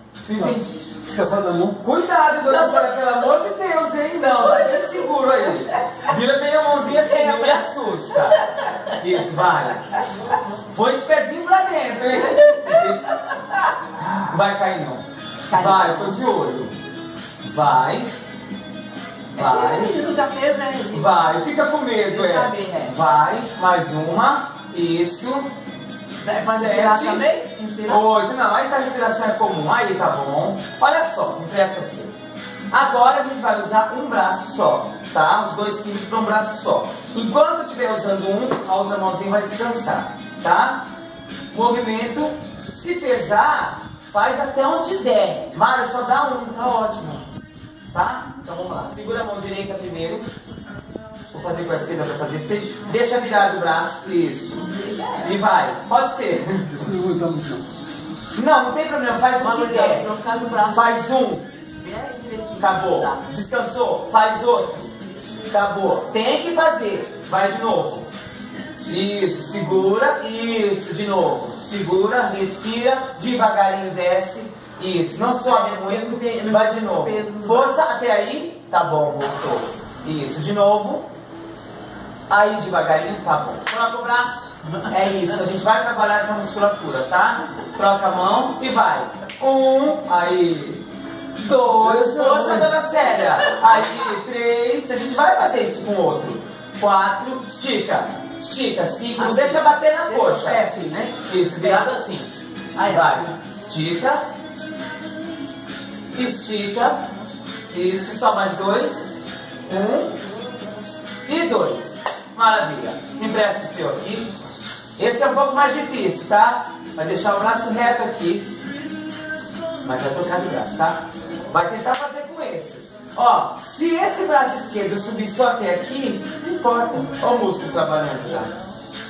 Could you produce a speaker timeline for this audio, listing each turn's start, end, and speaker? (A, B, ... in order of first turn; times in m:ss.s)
0:00.2-0:00.8 A
0:00.3-0:01.8 B
0:01.8-0:10.0 A
0:07.0-0:07.6 C
0:08.4-0:08.7 C
0:10.7-0:13.2 A
0:12.4-0:12.9 C
0:14.0-0:16.8 A
0:15.5-0:16.1 C
0:17.4-0:18.1 A
0:19.3-0:19.9 A
0:19.4-0:21.1 C
0:20.9-0:25.5 A
0:22.1-0:22.9 C
0:26.2-0:28.0 C
0:26.3-0:27.2 A
0:27.9-0:32.2 A
0:32.7-0:40.8 A
0:41.5-0:47.2 A
0:47.9-0:50.3 A
0:51.3-0:54.7 A
0:54.7-0:55.4 C
0:55.2-0:56.7 A
0:56.7-0:57.6 B
0:58.4-1:00.1 A
0:59.4-1:01.1 C
1:00.7-1:01.5 A
1:01.8-1:03.2 C
1:02.6-1:05.0 A
1:05.5-1:08.1 A
1:08.9-1:21.1 A
1:15.4-1:17.8 C
1:22.3-1:30.8 A
1:31.4-1:44.2 A
1:31.8-1:32.7 B
1:39.2-1:41.8 C
1:42.8-1:43.3 C
1:46.1-1:47.0 A
1:47.7-1:49.2 A
1:49.7-1:50.2 A
1:51.2-1:54.3 A
1:55.0-1:58.5 A
1:59.8-2:08.5 A